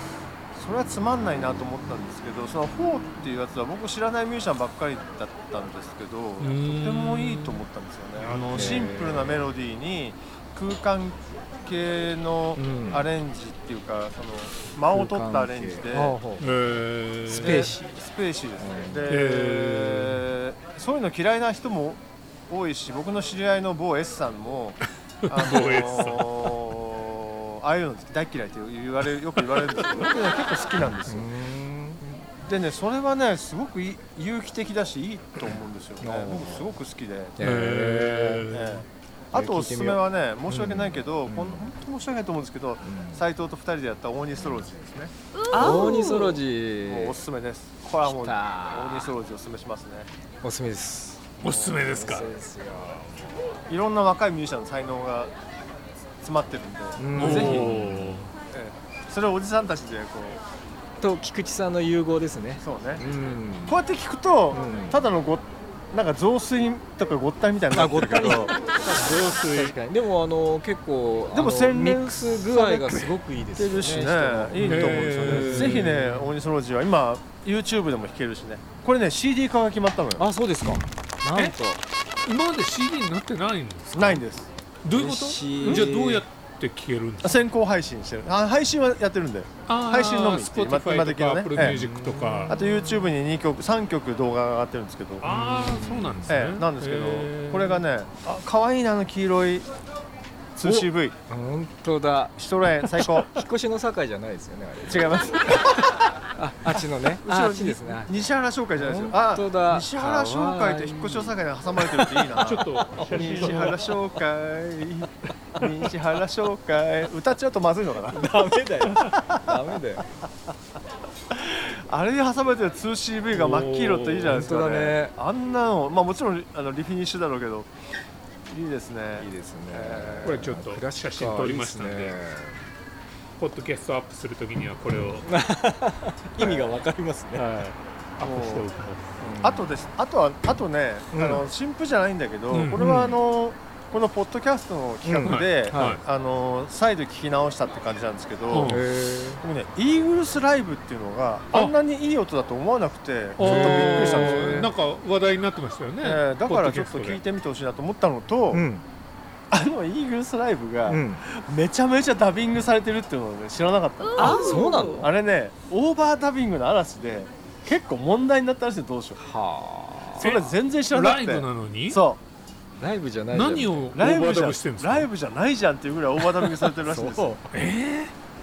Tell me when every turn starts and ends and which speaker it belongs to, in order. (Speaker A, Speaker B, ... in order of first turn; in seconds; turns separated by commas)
Speaker A: 0.6-16.2, Speaker B: 6.4-7.6, Speaker B: 8.2-8.5, Speaker C: 8.3-9.4, Speaker C: 12.6-13.1, Speaker C: 14.9-16.5, Speaker B: 16.4-17.7, Speaker A: 17.3-31.3, Speaker C: 17.3-18.0, Speaker C: 18.6-19.1, Speaker B: 19.1-20.2, Speaker B: 25.2-26.6, Speaker C: 31.1-32.2, Speaker A: 32.4-37.4, Speaker C: 36.0-36.7, Speaker C: 37.4-38.5, Speaker B: 37.4-38.8, Speaker A: 38.5-45.1, Speaker C: 39.3-41.7, Speaker C: 42.8-43.3, Speaker C: 45.5-47.2, Speaker A: 46.9-50.1, Speaker C: 48.1-49.1, Speaker C: 50.4-53.4, Speaker B: 51.4-52.3, Speaker A: 51.4-51.8, Speaker A: 53.7-55.3, Speaker A: 56.2-57.8, Speaker C: 57.0-58.3, Speaker B: 57.2-58.3, Speaker A: 58.5-60.4, Speaker C: 61.0-63.8, Speaker A: 62.6-63.0, Speaker A: 63.7-68.5, Speaker C: 64.5-65.0, Speaker C: 67.7-76.0, Speaker B: 68.7-69.8, Speaker A: 71.3-80.2, Speaker B: 74.6-76.3, Speaker C: 80.2-81.8, Speaker B: 82.2-84.2, Speaker A: 83.9-84.5, Speaker B: 84.8-87.4, Speaker C: 84.9-86.2, Speaker A: 85.6-85.9, Speaker A: 87.2-91.8, Speaker B: 89.7-92.6, Speaker C: 91.6-93.1, Speaker A: 92.5-95.3, Speaker B: 95.2-97.8, Speaker C: 95.2-96.4, Speaker A: 96.3-99.7, Speaker A: 100.6-101.2, Speaker C: 101.3-102.4, Speaker A: 102.4-103.3, Speaker C: 103.0-105.8, Speaker A: 104.9-106.0, Speaker C: 106.4-114.0, Speaker A: 106.8-118.5, Speaker B: 112.4-113.8, Speaker C: 118.1-120.1, Speaker A: 119.0-119.8, Speaker A: 121.3-127.7, Speaker B: 123.3-124.5, Speaker C: 124.3-125.1, Speaker A: 128.5-130.4, Speaker C: 129.2-132.6, Speaker B: 130.2-132.2, Speaker B: 133.4-135.3, Speaker C: 135.2-137.6, Speaker A: 136.4-136.7, Speaker B: 137.3-139.2, Speaker A: 138.2-138.7, Speaker C: 139.2-139.8, Speaker A: 139.4-148.8, Speaker C: 141.1-141.4, Speaker B: 142.5-143.0, Speaker C: 142.8-143.2, Speaker C: 145.1-146.0, Speaker B: 145.2-146.0, Speaker B: 148.5-148.8, Speaker C: 148.5-149.4, Speaker A: 149.4-154.7, Speaker B: 153.4-157.2, Speaker C: 153.4-154.7, Speaker A: 156.0-158.6, Speaker C: 158.5-158.8, Speaker A: 159.5-169.2, Speaker C: 160.9-161.2, Speaker C: 164.2-165.1, Speaker C: 169.2-170.3, Speaker A: 170.2-172.2, Speaker B: 170.2-172.0, Speaker C: 172.8-173.9, Speaker B: 173.3-175.1, Speaker A: 173.9-177.4, Speaker C: 176.8-177.4, Speaker B: 177.5-178.1